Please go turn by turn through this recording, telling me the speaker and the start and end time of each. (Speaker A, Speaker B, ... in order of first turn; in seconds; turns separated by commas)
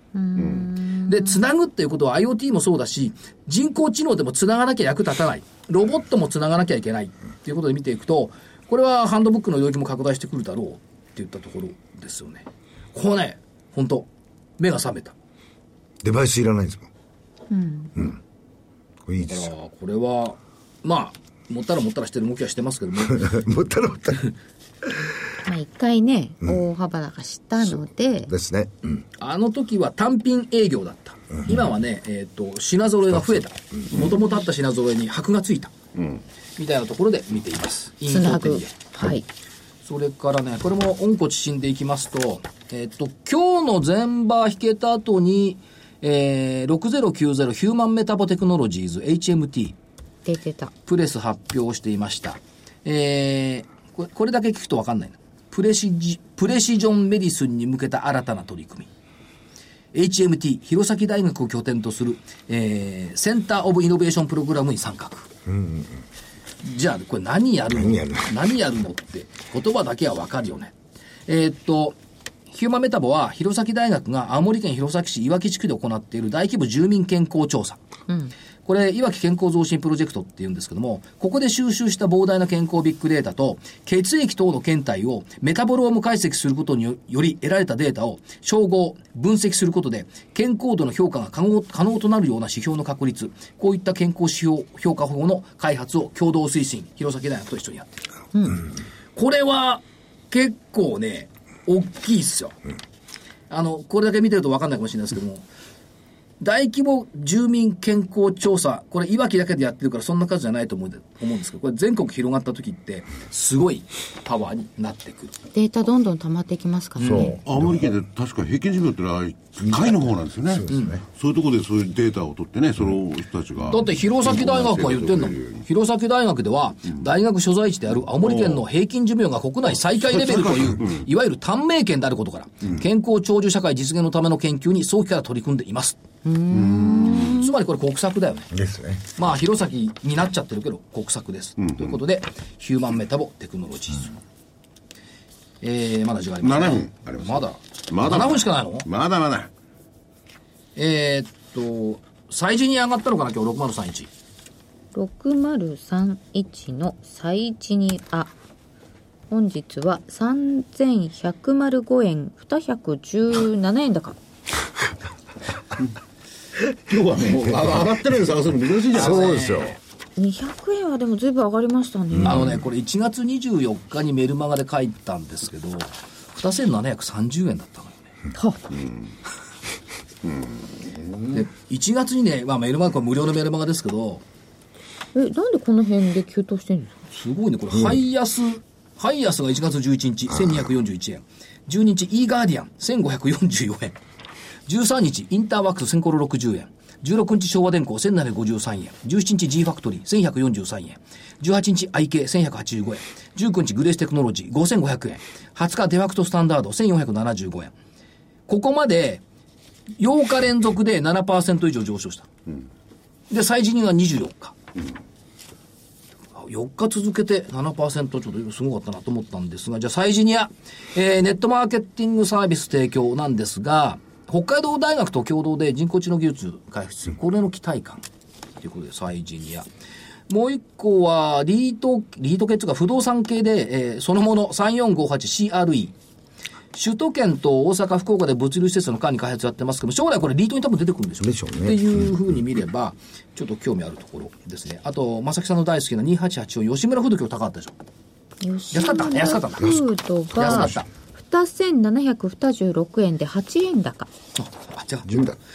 Speaker A: 0.1-1.4, Speaker B: 0.4-0.7, Speaker C: 1.1-14.1, Speaker C: 14.6-15.1, Speaker D: 16.0-16.9, Speaker A: 17.5-17.9, Speaker D: 19.1-19.5, Speaker C: 19.2-23.3, Speaker D: 23.1-24.3, Speaker A: 25.4-28.3, Speaker D: 28.3-29.0, Speaker C: 29.2-35.7, Speaker C: 36.6-38.9, Speaker A: 38.1-39.2, Speaker C: 39.8-49.8, Speaker A: 50.2-50.7, Speaker C: 50.9-58.9, Speaker C: 59.9-65.3, Speaker D: 65.5-66.0, Speaker C: 66.6-70.7, Speaker D: 67.8-68.2, Speaker C: 71.3-72.0, Speaker C: 72.5-77.8, Speaker C: 78.6-97.9, Speaker A: 98.3-98.6, Speaker C: 99.2-102.5, Speaker C: 103.5-105.4, Speaker C: 106.4-115.3, Speaker A: 115.5-117.3, Speaker C: 117.0-117.3, Speaker D: 117.0-117.7, Speaker B: 117.4-125.6, Speaker D: 119.7-121.0, Speaker C: 120.7-121.0, Speaker C: 123.7-136.0, Speaker B: 128.2-128.6, Speaker B: 130.1-131.0, Speaker A: 136.2-137.5, Speaker B: 136.5-137.4, Speaker C: 137.1-138.5, Speaker D: 138.5-139.1, Speaker C: 139.2-144.2, Speaker B: 141.6-141.9, Speaker C: 145.6-148.9, Speaker B: 146.4-149.5, Speaker C: 150.8-154.1, Speaker A: 154.9-158.3, Speaker A: 159.3-164.2, Speaker B: 166.8-169.3, Speaker C: 168.9-169.8, Speaker D: 168.9-169.8, Speaker A: 170.2-172.5, Speaker C: 172.2-178.0, Speaker A: 178.3-178.7, Speaker C: 181.3-184.2, Speaker A: 185.1-186.9, Speaker C: 187.1-194.0, Speaker C: 194.7-207.7, Speaker C: 208.5-209.2, Speaker C: 210.0-212.3, Speaker C: 213.3-214.6, Speaker C: 216.3-228.0, Speaker C: 228.6-229.7, Speaker C: 230.3-235.9, Speaker C: 236.7-247.7, Speaker D: 241.2-241.8, Speaker A: 248.4-254.1, Speaker C: 248.7-249.8, Speaker C: 250.3-250.9, Speaker D: 250.4-250.7, Speaker C: 254.4-255.3, Speaker D: 255.1-255.3